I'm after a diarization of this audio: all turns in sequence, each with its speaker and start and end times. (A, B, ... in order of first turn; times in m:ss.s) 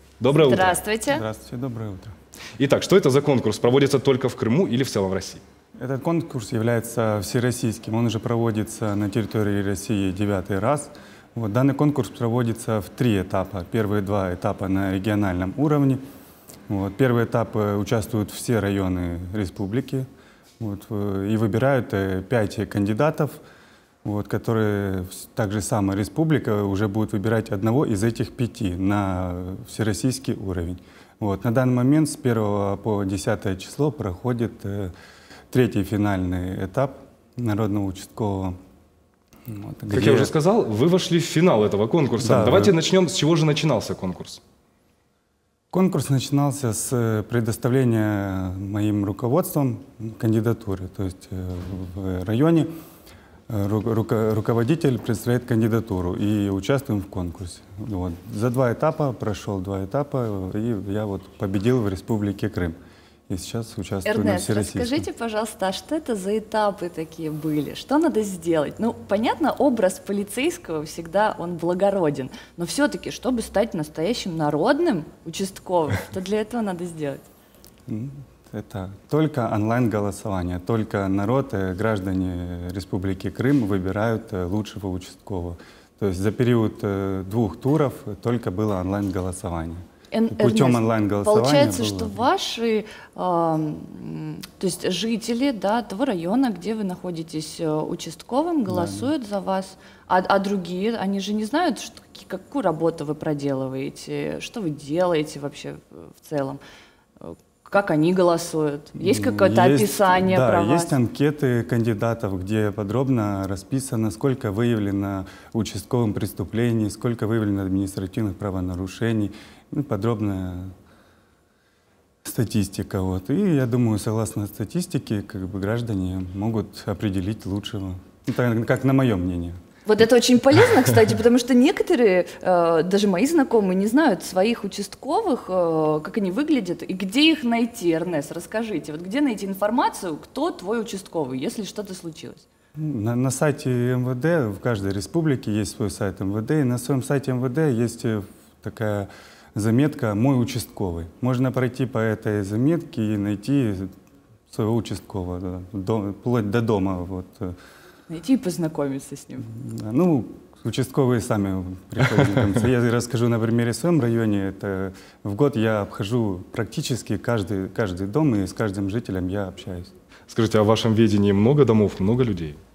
0:00.2-0:00.8 A
0:00.4-0:02.1 B
0:00.4-0:01.2 C
0:02.6-0:05.4 A
0:05.8-0:16.0 B
0:16.7-0:20.1 B
0:20.6-0:23.4 B
0:24.0-0:34.9 B
0:35.5-0:38.6 B
0:39.4-0:40.3 B
0:39.9-0:44.4 A
0:42.2-0:42.8 B
0:45.7-0:52.7 B
0:53.5-1:02.8 B
1:03.3-1:05.0 B
1:04.0-1:17.2 C
1:17.9-1:32.2 B
1:30.1-1:46.6 C
1:38.7-1:39.1 B
1:47.2-1:51.0 C
1:49.0-2:00.7 B
2:02.2-2:09.6 B
2:09.8-2:22.5 C
2:22.8-2:33.9 B
2:34.5-2:37.6 B
2:38.1-2:39.5 C
2:39.4-2:49.9 B
2:50.3-2:52.6 A